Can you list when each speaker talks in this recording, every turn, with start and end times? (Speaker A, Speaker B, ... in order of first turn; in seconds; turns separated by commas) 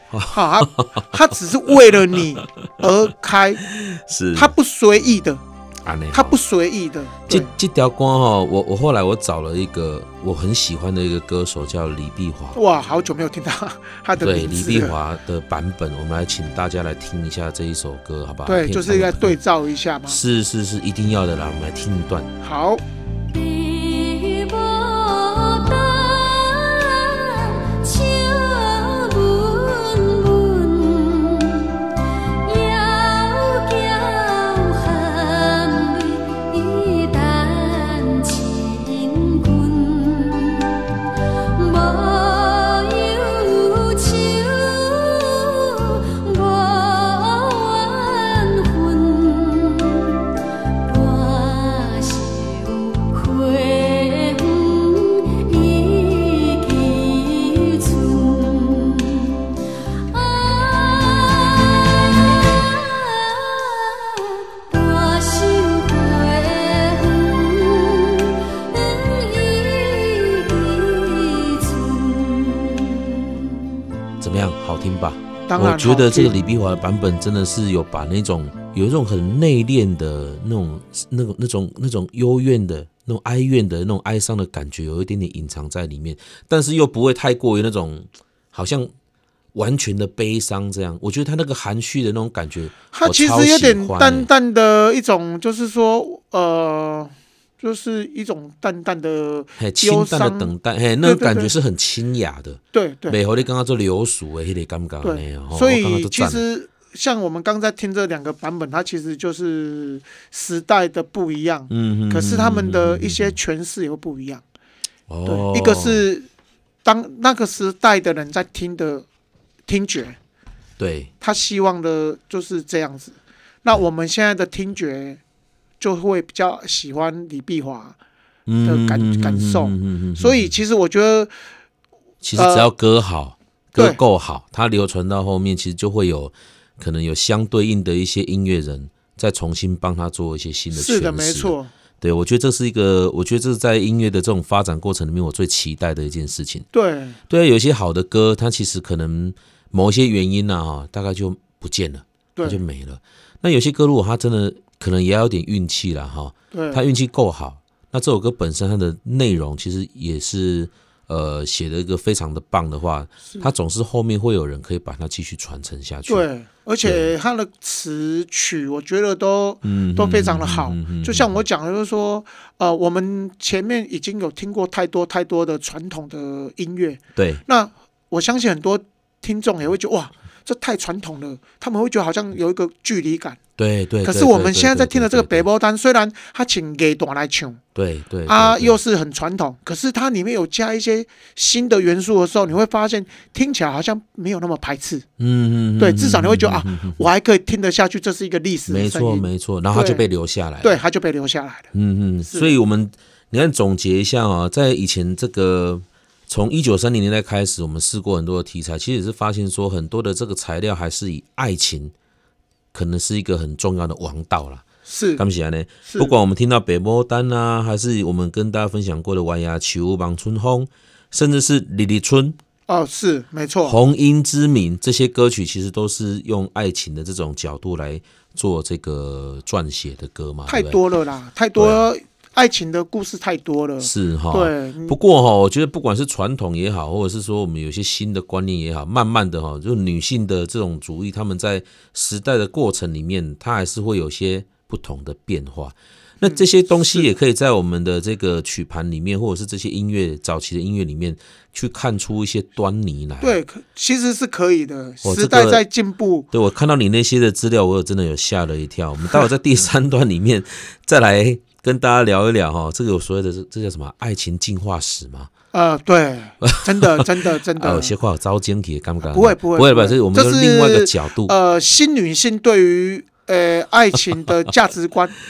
Speaker A: 0.1-1.1, Speaker B: 0.3-3.6, Speaker A: 3.7-4.5, Speaker B: 4.3-5.4, Speaker A: 5.8-6.3, Speaker B: 6.1-7.5, Speaker A: 7.3-12.6, Speaker B: 12.5-14.9, Speaker A: 14.2-19.4, Speaker B: 18.4-20.2, Speaker A: 20.1-22.3, Speaker B: 22.4-22.8, Speaker C: 23.3-31.6, Speaker C: 32.4-40.8, Speaker C: 41.5-50.2, Speaker C: 50.9-59.3, Speaker C: 60.1-72.7, Speaker A: 74.2-88.9, Speaker B: 75.5-76.3, Speaker A: 89.5-94.3, Speaker B: 92.9-100.5, Speaker A: 99.6-106.4, Speaker B: 101.0-101.5, Speaker B: 102.7-103.2, Speaker B: 105.0-114.4, Speaker A: 111.7-113.3, Speaker A: 115.1-116.0, Speaker B: 115.2-116.3, Speaker B: 116.8-119.0, Speaker B: 119.7-120.2, Speaker A: 120.8-121.1, Speaker B: 121.2-125.2, Speaker B: 125.8-128.0, Speaker A: 128.5-130.5, Speaker B: 128.6-131.3, Speaker A: 132.2-146.7, Speaker B: 132.4-132.7, Speaker B: 140.7-141.7, Speaker B: 146.7-147.2, Speaker A: 147.3-166.2, Speaker B: 152.3-152.6, Speaker B: 156.5-156.8, Speaker B: 166.1-183.4, Speaker A: 166.8-167.1, Speaker A: 169.6-171.4, Speaker A: 177.2-177.4, Speaker A: 183.6-185.4, Speaker B: 184.0-187.6, Speaker A: 187.7-188.8, Speaker B: 188.3-195.0, Speaker A: 195.2-197.0, Speaker B: 195.8-200.0, Speaker A: 198.7-200.8, Speaker B: 200.6-201.7, Speaker A: 201.7-211.9, Speaker B: 202.3-202.5, Speaker A: 212.7-214.6, Speaker B: 214.8-215.2, Speaker A: 215.2-222.4, Speaker B: 215.9-216.1, Speaker B: 222.7-223.8, Speaker A: 223.6-230.8, Speaker B: 230.5-235.0, Speaker A: 231.5-231.9, Speaker A: 233.8-253.4, Speaker B: 246.2-247.1, Speaker B: 253.2-256.3, Speaker A: 255.0-255.6, Speaker A: 256.3-265.3, Speaker B: 265.5-267.9, Speaker A: 266.4-271.3, Speaker B: 269.0-275.1